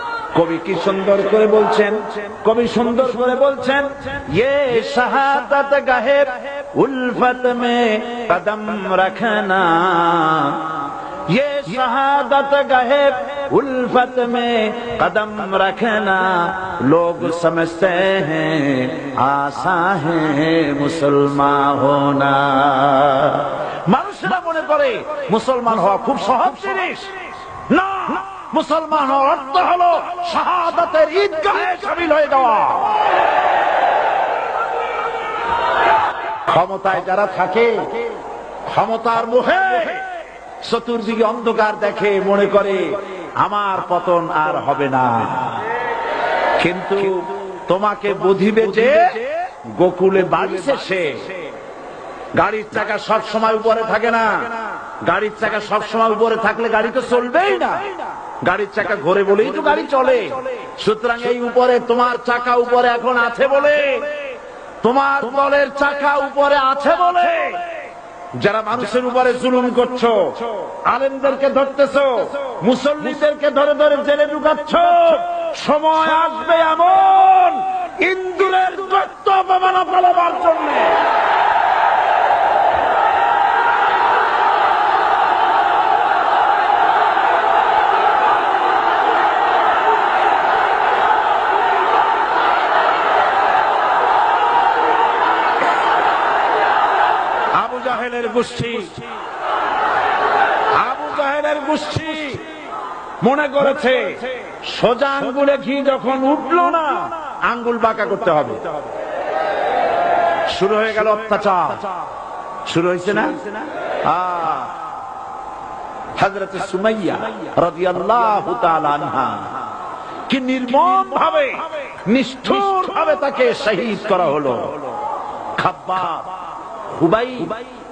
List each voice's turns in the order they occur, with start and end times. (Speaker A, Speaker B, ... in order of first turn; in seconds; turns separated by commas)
Speaker A: 0.3-33.0, Speaker A: 36.4-38.1, Speaker A: 38.6-45.7, Speaker A: 46.6-51.4, Speaker A: 52.3-64.3, Speaker A: 64.8-67.8, Speaker A: 68.3-81.1, Speaker A: 97.5-99.1, Speaker A: 100.7-102.5, Speaker A: 103.2-108.7, Speaker A: 110.5-111.9, Speaker A: 112.7-114.8, Speaker A: 116.2-119.7, Speaker A: 120.3-124.9, Speaker A: 125.5-127.6